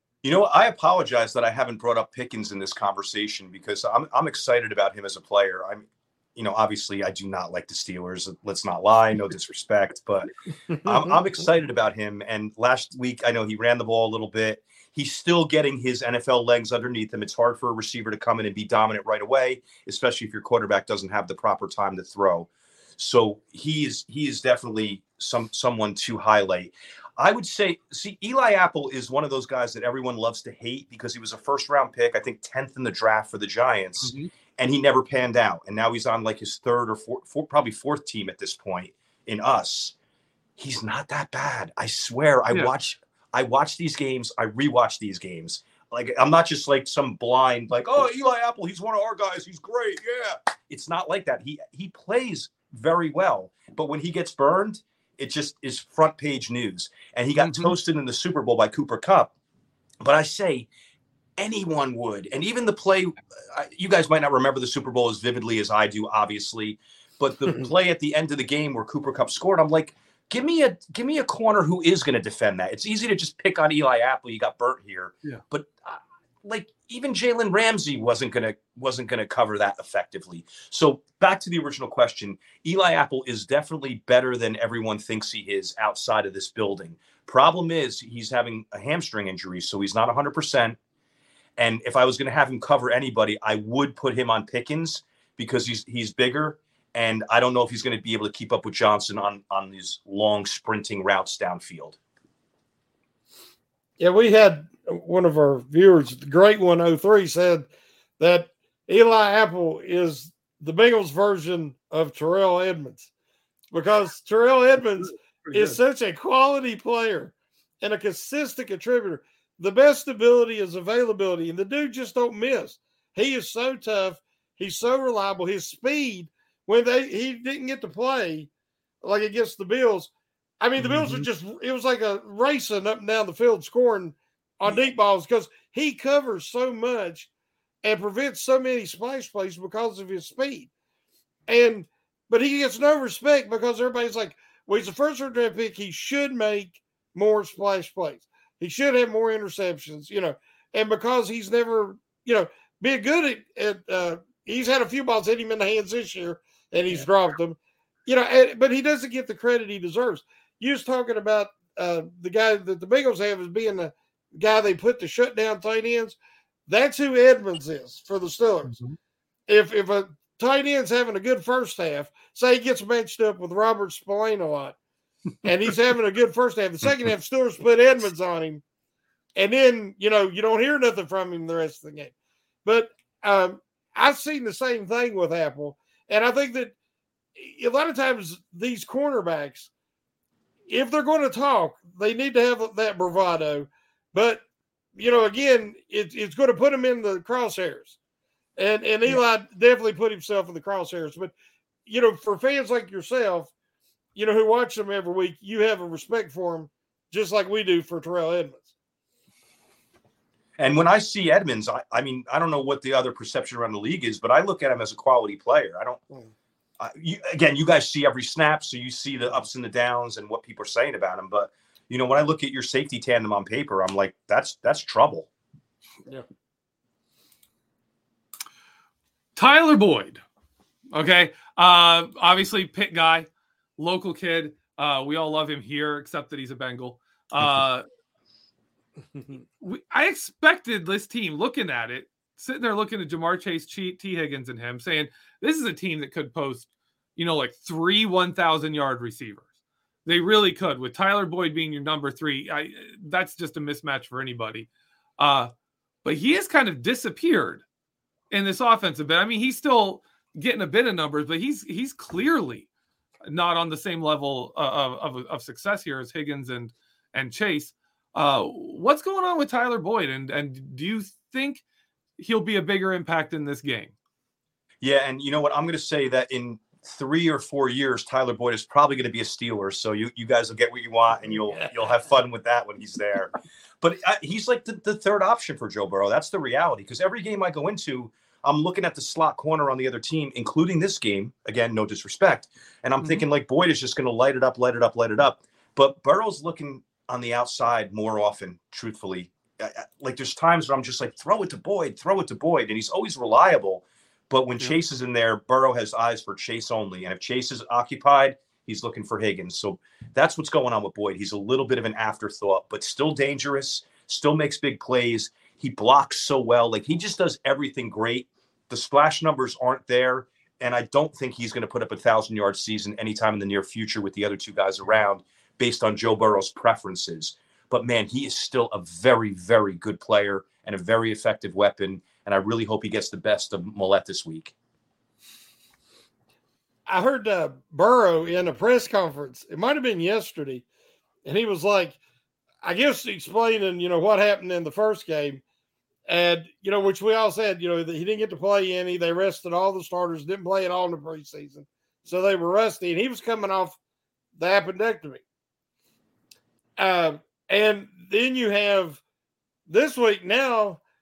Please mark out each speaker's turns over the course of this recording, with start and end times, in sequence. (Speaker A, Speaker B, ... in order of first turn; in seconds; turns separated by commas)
Speaker A: 0.2-39.9, Speaker B: 34.0-34.3, Speaker A: 40.6-59.3, Speaker B: 57.4-57.7, Speaker A: 60.0-60.7, Speaker A: 61.4-90.8, Speaker A: 91.6-102.0, Speaker C: 104.0-107.7, Speaker C: 108.2-113.1, Speaker C: 113.7-128.5, Speaker B: 115.4-115.8, Speaker C: 129.0-137.3, Speaker B: 130.8-131.2, Speaker C: 137.8-140.7, Speaker C: 141.5-168.8, Speaker C: 169.5-174.8, Speaker C: 175.4-178.6, Speaker C: 179.3-182.1, Speaker C: 182.6-186.7, Speaker C: 187.3-189.7, Speaker C: 190.7-194.4, Speaker C: 194.9-197.9, Speaker C: 198.6-201.3, Speaker C: 201.8-203.5, Speaker C: 204.1-208.7, Speaker A: 210.6-216.0, Speaker A: 216.8-225.3, Speaker B: 229.3-230.2, Speaker B: 230.9-233.3, Speaker B: 233.8-237.8, Speaker B: 239.6-249.5, Speaker B: 250.0-254.7, Speaker B: 255.2-255.5, Speaker B: 256.0-257.6, Speaker B: 258.3-262.7, Speaker B: 263.2-271.6, Speaker B: 272.2-273.9, Speaker A: 274.8-334.5, Speaker C: 336.9-340.6, Speaker C: 341.2-342.0, Speaker C: 342.6-345.4, Speaker C: 346.1-353.8, Speaker C: 354.4-355.2, Speaker C: 356.8-359.0, Speaker C: 359.7-360.8